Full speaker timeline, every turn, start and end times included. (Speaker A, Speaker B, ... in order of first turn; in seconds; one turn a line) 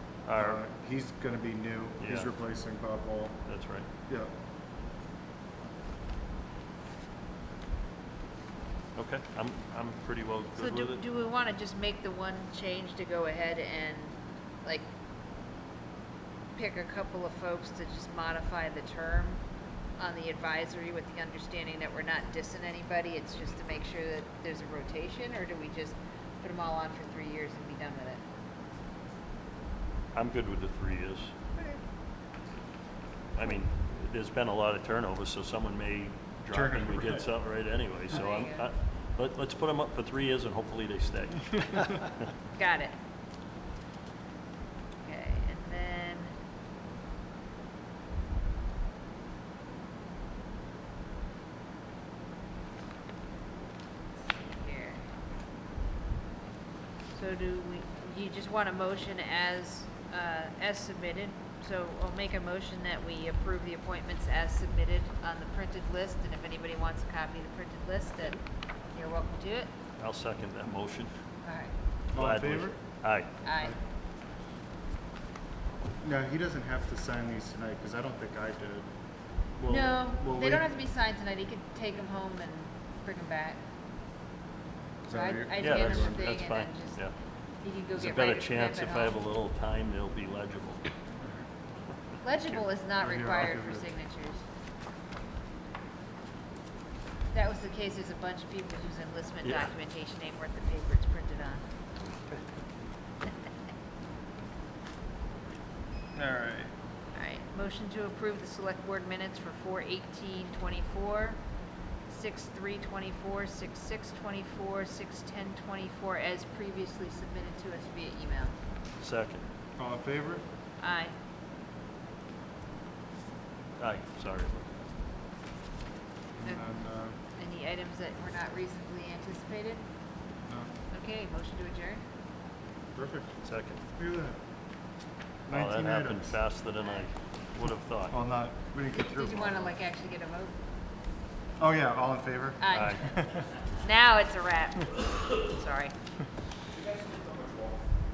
Speaker A: 0.2-0.6
Speaker B: 0.3-3.4
Speaker A: 2.0-2.3
Speaker A: 3.5-3.9
Speaker A: 8.9-11.0
Speaker C: 10.6-14.9
Speaker C: 16.5-19.4
Speaker C: 20.0-28.2
Speaker A: 30.1-31.3
Speaker A: 33.3-42.3
Speaker B: 36.5-37.2
Speaker C: 38.1-38.6
Speaker C: 42.5-42.9
Speaker C: 45.0-46.3
Speaker C: 54.3-55.0
Speaker C: 57.1-69.7
Speaker A: 70.0-71.1
Speaker C: 71.4-71.7
Speaker B: 72.1-72.8
Speaker A: 72.1-73.3
Speaker C: 73.4-73.8
Speaker B: 76.0-78.9
Speaker B: 79.5-80.7
Speaker C: 79.7-83.6
Speaker B: 85.0-86.2
Speaker C: 85.1-87.0
Speaker A: 85.6-87.1
Speaker C: 87.6-89.2
Speaker A: 87.9-90.8
Speaker C: 92.2-94.4
Speaker B: 93.0-93.9
Speaker C: 97.3-101.6
Speaker A: 99.4-99.7
Speaker B: 106.1-106.7
Speaker C: 107.1-111.4
Speaker C: 112.1-118.5
Speaker A: 119.0-119.4
Speaker B: 119.8-120.4
Speaker C: 120.8-121.1
Speaker A: 123.8-124.7
Speaker B: 126.3-127.2
Speaker C: 127.4-129.8
Speaker C: 130.9-132.0
Speaker B: 133.0-133.3
Speaker A: 133.4-133.8
Speaker B: 133.9-134.4
Speaker B: 135.5-136.4
Speaker A: 135.5-138.2
Speaker B: 138.1-139.7
Speaker C: 138.9-140.5
Speaker B: 141.6-143.4
Speaker C: 142.6-143.1
Speaker A: 142.7-143.0
Speaker C: 143.8-145.9